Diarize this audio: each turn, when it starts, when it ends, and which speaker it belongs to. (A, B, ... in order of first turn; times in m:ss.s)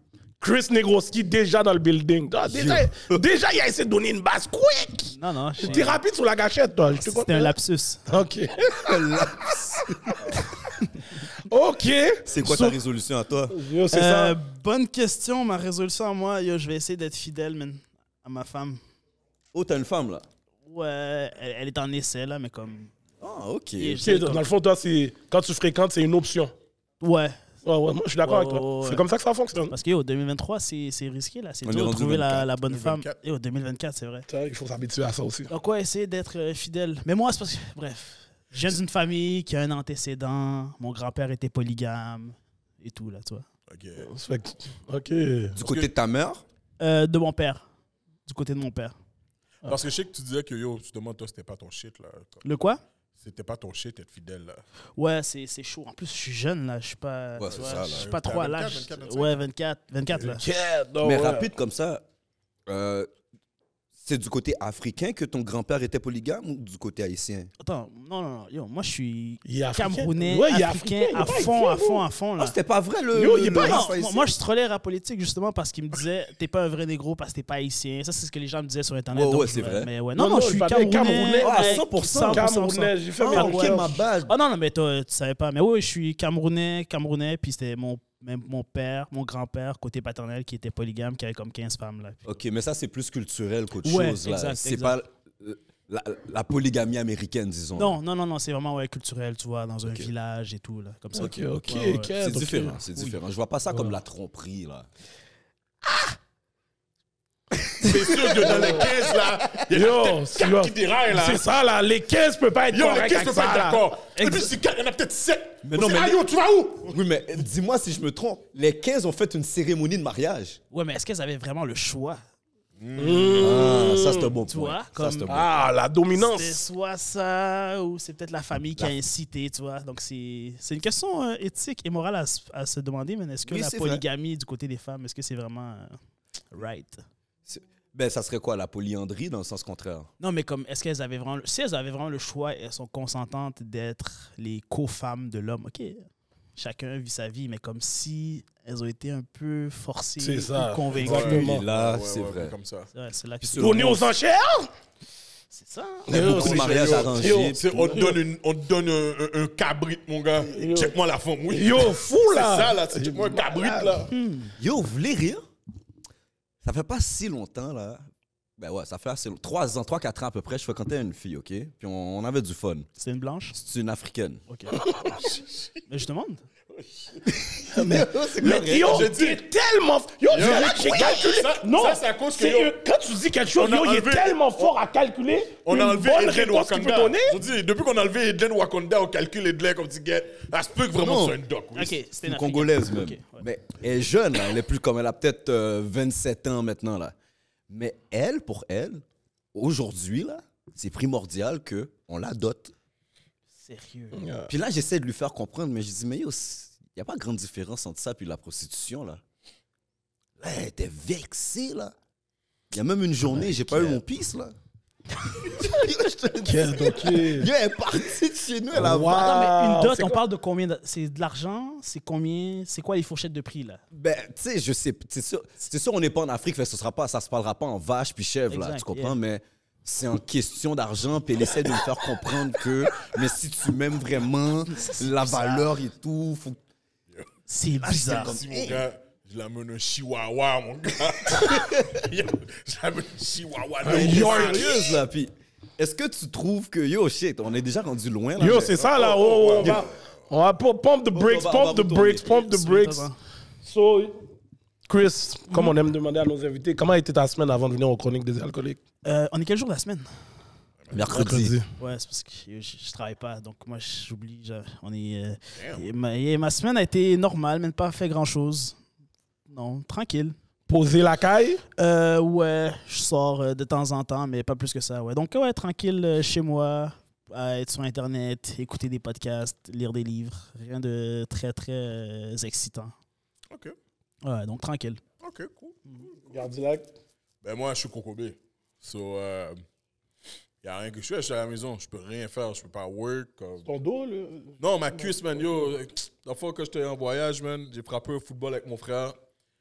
0:00.4-0:07.5 A
0:02.5-0:03.2 B
0:05.1-0:06.0 C
0:06.9-0:08.0 C
0:08.1-0:09.3 A
0:08.8-0:10.4 B
0:10.1-0:10.4 A
0:11.5-0:12.3 A
0:12.3-0:14.3 B
0:12.4-0:12.8 C
0:13.5-0:14.3 A
0:13.9-0:18.8 C
0:19.5-0:20.2 B
0:20.6-0:22.9 C
0:23.2-0:24.2 B
0:23.8-0:24.4 C
0:24.0-0:26.5 A
0:27.0-0:27.4 C
0:27.6-0:29.7 A
0:28.2-0:29.0 C
0:29.7-0:34.3 C
0:31.6-0:32.5 B
0:32.7-0:33.2 D
0:34.3-0:35.5 A
0:35.5-0:43.4 C
0:43.7-0:44.1 D
0:44.0-0:45.6 A
0:45.5-0:46.4 B
0:45.6-0:45.9 D
0:46.8-0:47.6 C
0:48.2-0:49.0 C
0:49.6-0:52.4 D
0:52.4-0:52.8 C
0:53.2-0:54.6 D
0:55.0-1:00.4 C
0:57.4-0:58.1 B
0:57.4-0:59.4 D
1:00.3-1:01.5 A
1:01.0-1:02.0 B
1:02.7-1:03.1 B
1:04.0-1:07.5 B
1:07.6-1:12.5 C
1:09.4-1:11.5 A
1:11.2-1:14.3 B
1:13.1-1:13.9 A
1:13.4-1:32.4 C
1:19.1-1:19.9 B
1:20.2-1:24.0 A
1:21.4-1:22.5 B
1:23.2-1:24.3 B
1:32.2-1:38.0 B
1:33.8-1:35.0 C
1:37.8-1:42.1 C
1:41.1-1:42.8 A
1:42.1-1:44.9 B
1:47.8-1:51.4 D
1:48.4-1:48.8 A
1:48.4-1:49.5 B
1:49.7-1:53.8 A
1:52.7-1:57.0 D
1:54.2-1:54.5 C
1:55.6-1:56.2 B
1:56.8-2:00.6 B
2:00.7-2:02.2 C
2:02.8-2:03.9 D
2:03.0-2:04.3 A
2:03.4-2:05.7 B
2:04.5-2:05.4 C
2:05.3-2:06.6 A
2:06.1-2:16.0 C
2:13.4-2:14.0 B
2:16.5-2:17.0 C
2:17.5-2:20.1 B
2:20.2-2:31.4 C
2:30.2-2:31.6 A
2:31.0-2:32.9 D
2:31.1-2:32.5 B
2:32.9-2:33.8 C
2:33.4-2:34.1 B
2:33.6-2:34.7 A
2:35.5-2:36.2 C
2:36.1-2:38.2 A
2:36.1-2:37.8 B
2:36.1-2:44.1 D
2:40.5-2:41.0 A
2:41.5-2:44.1 A
2:44.1-2:44.5 C
2:44.6-2:45.4 B
2:46.6-2:48.0 B
2:48.6-2:52.9 B
2:53.0-2:53.6 C
2:53.5-2:54.4 B
2:54.5-2:54.8 C
2:55.2-2:55.5 D
2:55.9-2:56.4 C
2:56.7-2:57.2 D
2:57.7-3:07.4 A
2:57.7-2:59.1 B
2:58.8-2:59.4 D
3:00.3-3:02.7 D
3:03.6-3:04.7 D
3:05.6-3:12.0 D
3:11.0-3:11.4 B
3:11.8-3:13.4 C
3:12.2-3:17.1 B
3:17.7-3:22.7 B
3:23.6-3:24.2 C
3:24.1-3:24.5 A
3:24.5-3:29.2 B
3:30.4-3:31.9 B
3:32.7-3:34.5 B
3:35.4-3:39.4 B
3:36.4-3:37.5 A
3:38.7-3:40.2 A
3:39.1-3:43.8 C
3:43.9-3:56.6 B
3:48.5-3:49.2 C
3:54.7-3:55.7 C
3:57.5-3:58.4 C
3:57.8-3:58.8 B
3:58.0-4:05.0 D
4:01.5-4:02.0 B
4:03.8-4:04.6 A
4:03.8-4:08.8 B
4:08.4-4:13.1 A
4:08.6-4:09.9 D
4:09.6-4:09.9 B
4:11.1-4:12.2 B
4:12.2-4:13.1 C
4:13.6-4:14.2 A
4:14.9-4:18.8 A
4:19.0-4:20.0 C
4:20.9-4:21.6 B
4:21.1-4:21.7 A
4:21.8-4:28.8 C
4:25.5-4:25.8 D
4:29.5-4:30.4 C
4:30.7-4:31.6 A
4:31.8-4:42.9 C
4:44.2-4:45.0 C
4:45.2-4:45.8 D
4:46.2-4:46.9 A
4:47.4-4:49.6 D
4:50.6-4:53.6 D
4:53.6-4:55.1 A
4:54.6-4:59.2 D